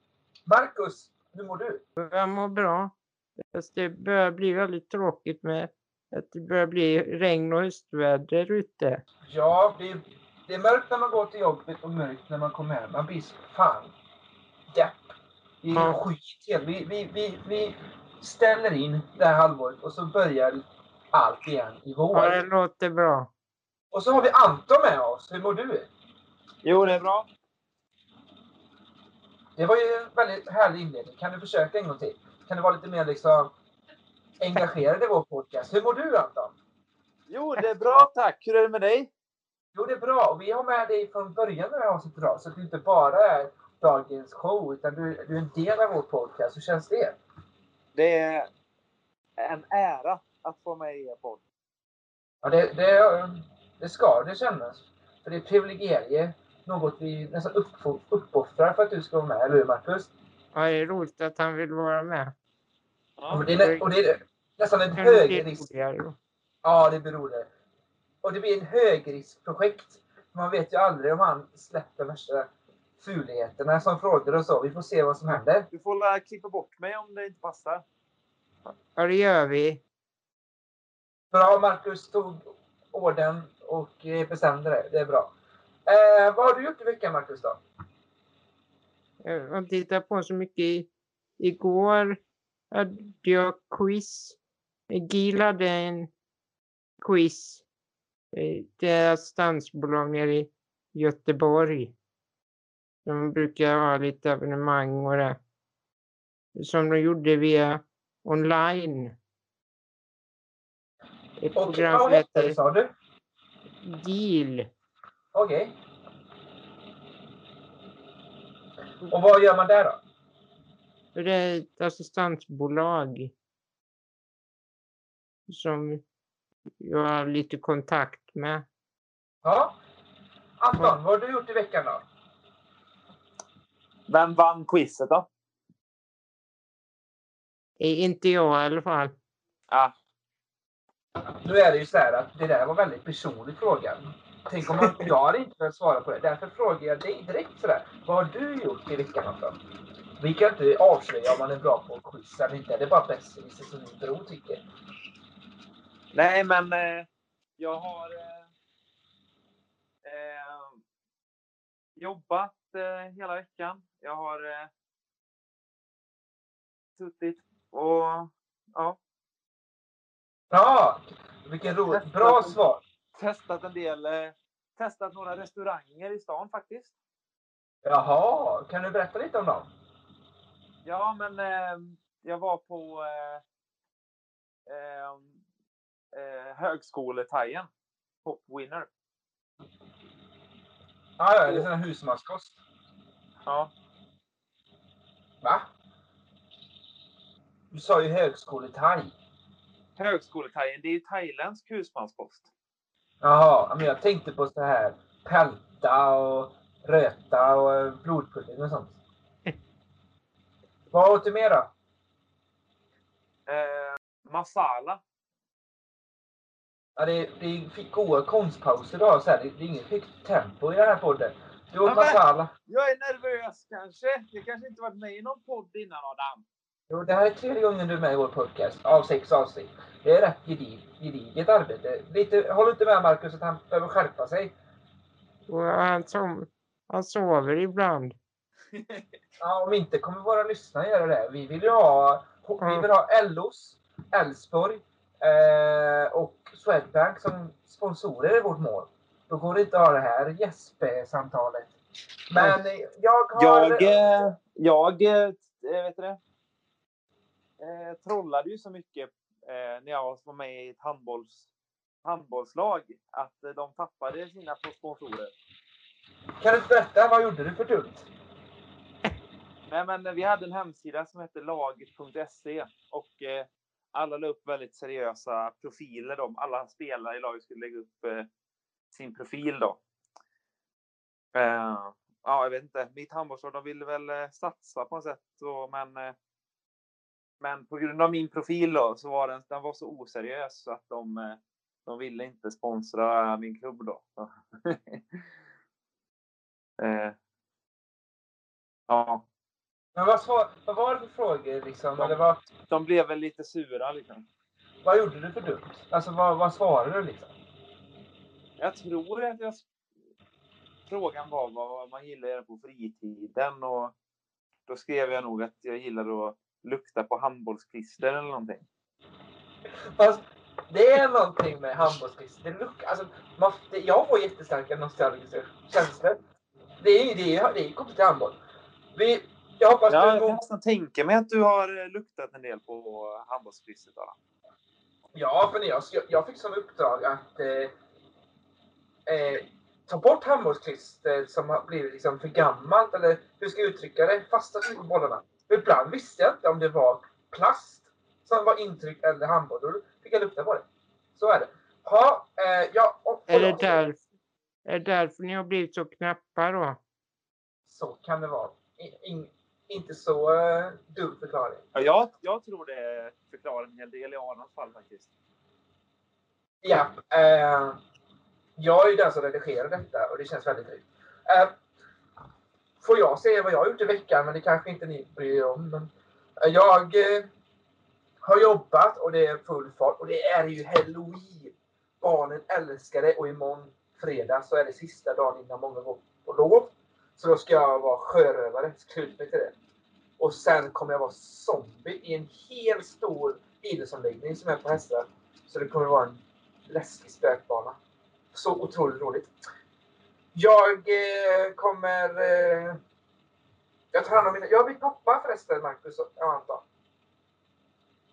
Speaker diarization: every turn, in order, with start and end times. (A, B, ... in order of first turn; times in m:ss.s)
0:00.5-0:01.8 A
0:02.0-0:02.9 B
0:03.5-0:09.0 B
0:09.3-0:13.9 A
0:14.7-0:15.0 A
0:15.6-0:22.4 A
0:15.7-0:16.0 B
0:22.1-0:23.3 B
0:23.9-0:25.9 A
0:26.6-0:27.3 C
0:29.6-0:33.5 A
0:34.4-0:36.6 A
0:37.3-0:39.1 C
0:39.7-0:47.2 A
0:48.0-0:48.5 C
0:49.4-0:51.4 C
0:52.4-1:00.1 A
1:00.5-1:02.3 B
1:03.2-1:03.5 C
1:03.3-1:05.6 A
1:03.5-1:03.9 B
1:04.9-1:06.2 B
1:06.6-1:07.5 A
1:08.2-1:12.5 A
1:13.0-1:15.7 A
1:15.7-1:17.8 C
1:19.0-1:19.8 B
1:21.3-1:25.3 A
1:25.9-1:27.6 A
1:29.2-1:34.4 B
1:34.9-1:36.1 B
1:37.0-1:37.6 B
1:38.3-1:42.0 B
1:43.0-1:45.4 B
1:46.6-1:49.2 B
1:51.4-1:52.6 B
1:51.6-1:52.9 A
1:53.8-1:54.7 B
1:55.3-1:55.7 A
1:59.1-2:00.0 A
2:01.1-2:03.3 B
2:05.5-2:06.0 B
2:06.8-2:08.7 B
2:09.4-2:09.8 A
2:10.6-2:12.0 A
2:14.1-2:15.3 C
2:17.8-2:19.2 B
2:21.4-2:29.6 A
2:30.2-2:34.6 A
2:36.1-2:37.1 C
2:37.6-2:38.5 C
2:40.0-2:40.8 C
2:42.0-2:44.7 C
2:47.0-2:49.0 C
2:50.5-2:52.8 A
2:51.6-2:52.6 C
2:53.2-2:56.9 C
2:57.8-2:59.7 A
3:00.8-3:03.4 C
3:04.7-3:05.4 C
3:06.2-3:07.7 C
3:08.2-3:08.9 C
3:11.2-3:12.6 A
3:13.5-3:13.7 C
3:15.4-3:15.7 A
3:17.7-3:19.1 A
3:20.0-3:22.5 C
3:23.2-3:29.0 A
3:30.9-3:31.7 A
3:33.5-3:35.0 C
3:37.0-3:42.5 A
3:41.9-3:46.4 C
3:46.9-3:54.6 A
3:55.5-3:58.2 B
3:58.8-3:59.0 C
3:59.4-4:11.8 A
4:02.6-4:02.9 B
4:12.3-4:14.0 A
4:13.3-4:16.2 C
4:17.6-4:21.5 C
4:22.0-4:25.3 C
4:26.4-4:28.1 A
4:29.7-4:38.3 C
4:38.9-4:39.8 C
4:41.4-4:46.2 C
4:47.4-4:55.2 C
4:56.8-4:57.2 C
4:58.9-4:59.2 C
5:00.0-5:02.4 A
5:02.0-5:04.2 C
5:04.8-5:07.3 A
5:08.6-5:09.6 C
5:10.9-5:13.9 C
5:14.7-5:18.7 C
5:20.0-5:26.2 A
5:26.8-5:28.4 A
5:29.0-5:30.4 A
5:29.9-5:34.1 C
5:35.1-5:37.7 A
5:39.1-5:53.8 A
5:53.3-5:54.0 B
5:54.7-5:56.8 B
5:57.7-6:01.6 A
6:01.8-6:05.1 C
6:06.6-6:07.8 A
6:08.6-6:11.5 A
6:12.8-6:15.9 A
6:16.4-6:17.3 A
6:18.2-6:29.6 A
6:30.2-6:37.8 A
6:38.3-6:39.3 A
6:40.4-6:42.8 A
6:43.9-6:46.6 A